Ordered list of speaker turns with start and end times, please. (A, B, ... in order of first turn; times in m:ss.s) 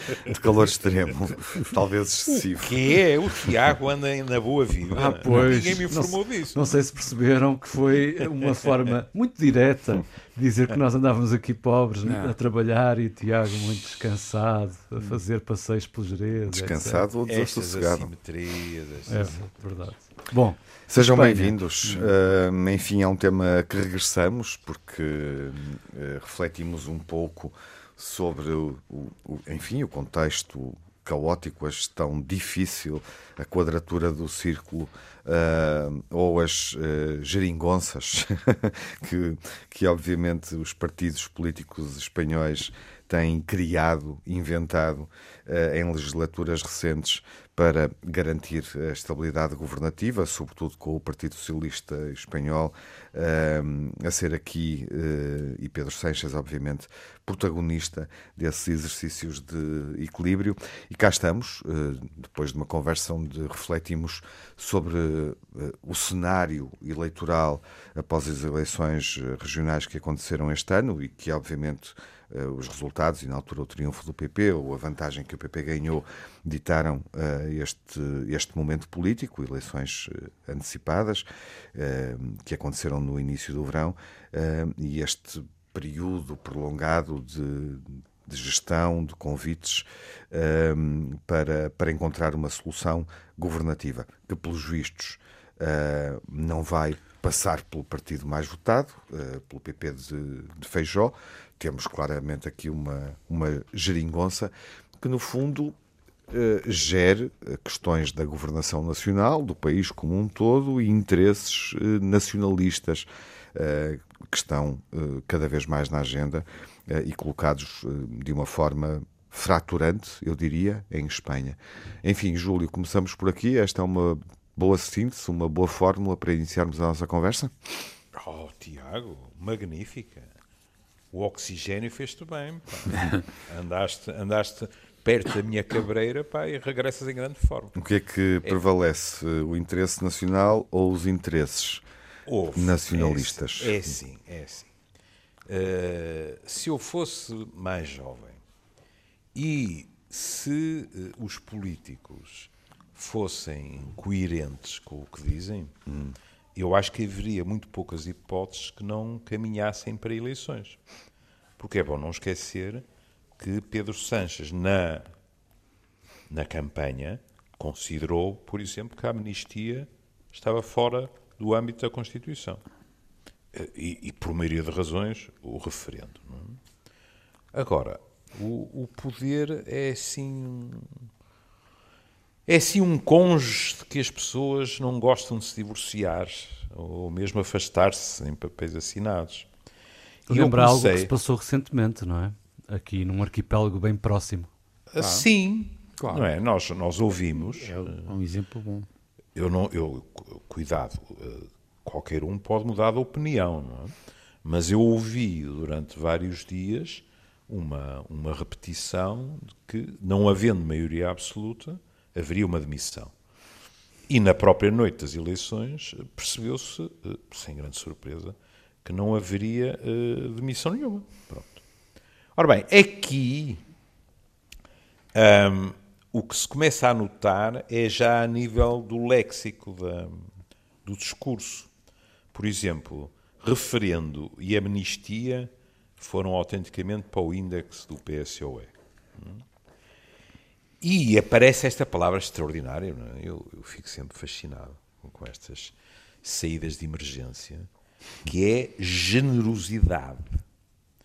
0:00.3-0:02.8 A
0:02.6-0:06.6 B
0:05.0-0:17.1 C
0:12.0-0:12.3 D
0:16.5-0:18.1 A
0:17.2-0:19.6 B
0:19.1-0:22.0 C
0:20.9-1:45.8 A
1:46.3-2:07.9 A
2:08.1-2:10.3 B
2:11.1-2:17.9 B
2:17.8-2:21.8 A
2:22.3-2:24.7 B
2:22.6-2:23.8 A
2:25.5-2:28.4 B
2:29.4-2:35.7 B
2:35.9-2:36.2 A
2:36.6-2:40.8 B
2:41.6-2:42.8 B
2:43.4-2:45.1 B
2:46.3-2:52.6 B
2:53.5-2:56.6 B
2:57.5-3:00.9 B
3:02.5-3:09.5 B
3:10.3-3:11.1 B
3:10.3-3:14.5 C
3:14.9-3:18.1 B
3:15.0-3:15.3 D
3:16.0-3:16.3 D
3:17.4-3:18.9 D
3:19.4-3:23.9 B
3:24.4-3:33.1 B
3:34.1-3:41.6 B
3:42.4-3:43.6 B
3:45.1-3:50.3 B
3:50.8-3:51.7 B
3:52.3-3:59.4 B
4:00.8-4:07.7 B
4:08.3-4:10.4 B